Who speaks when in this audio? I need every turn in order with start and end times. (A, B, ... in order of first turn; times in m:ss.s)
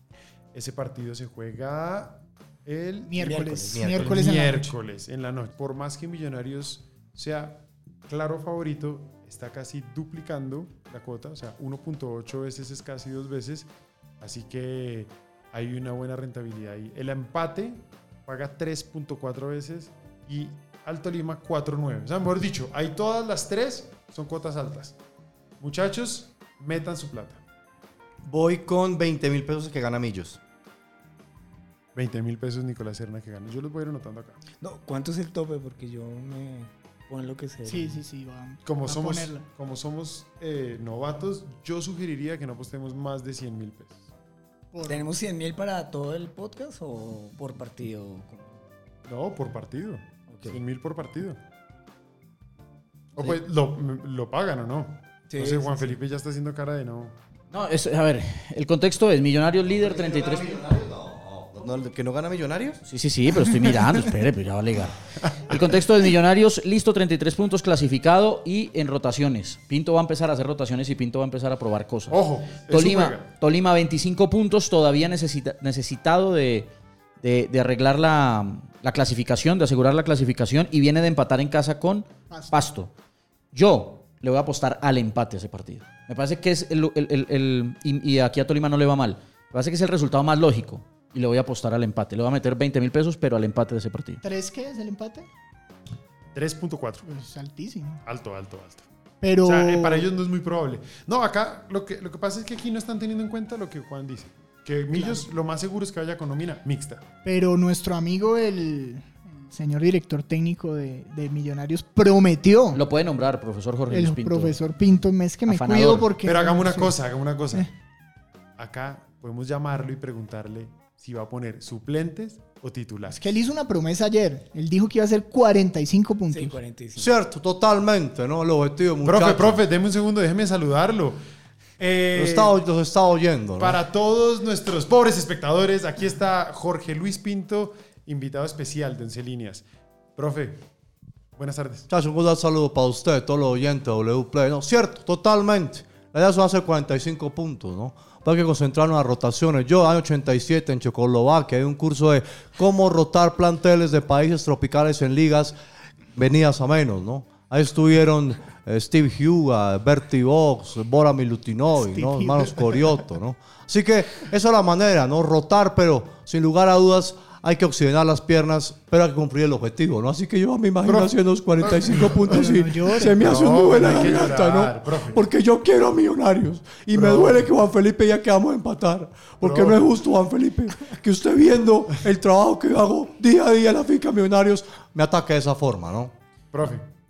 0:00.5-0:25.0 A
0:03.1-0:04.8 B
0:03.1-0:03.9 C
0:03.7-0:04.1 D
0:25.6-0:27.4 A
0:28.2-0:30.4 D
0:31.9-0:34.4 A
0:34.6-0:38.0 C
0:37.6-0:39.4 B
0:38.6-0:44.0 A
0:44.7-0:45.0 B
0:44.8-0:48.6 C
0:49.1-0:51.4 A
0:50.3-0:50.6 C
0:53.2-0:57.2 A
0:55.3-0:55.9 C
0:57.5-1:00.6 E
0:59.7-1:02.8 D
1:02.9-1:16.7 E
1:12.1-1:13.3 A
1:17.2-1:22.9 E
1:22.3-1:22.6 B
1:23.5-1:34.2 E
1:34.2-1:35.3 B
1:36.3-1:37.0 A
1:37.0-1:38.0 B
1:38.0-1:38.9 A
1:39.2-1:40.1 B
1:39.4-1:47.0 A
1:44.9-1:45.2 B
1:47.2-1:52.8 B
1:52.7-1:54.6 E
1:53.9-1:57.0 B
1:55.5-1:56.1 E
1:56.2-1:57.7 A
1:58.6-2:03.2 A
2:03.1-2:06.6 B
2:06.3-2:07.2 C
2:07.0-2:09.6 D
2:09.0-2:11.2 A
2:11.8-2:12.6 A
2:12.1-2:13.8 D
2:13.6-2:19.6 A
2:20.2-2:20.6 A
2:21.4-2:21.9 A
2:21.9-2:35.5 D
2:36.1-3:06.1 D
2:41.8-2:42.8 B
2:50.8-2:55.2 A
2:52.3-2:53.1 B
2:56.9-2:57.5 A
2:59.4-2:59.9 A
3:06.5-3:06.9 A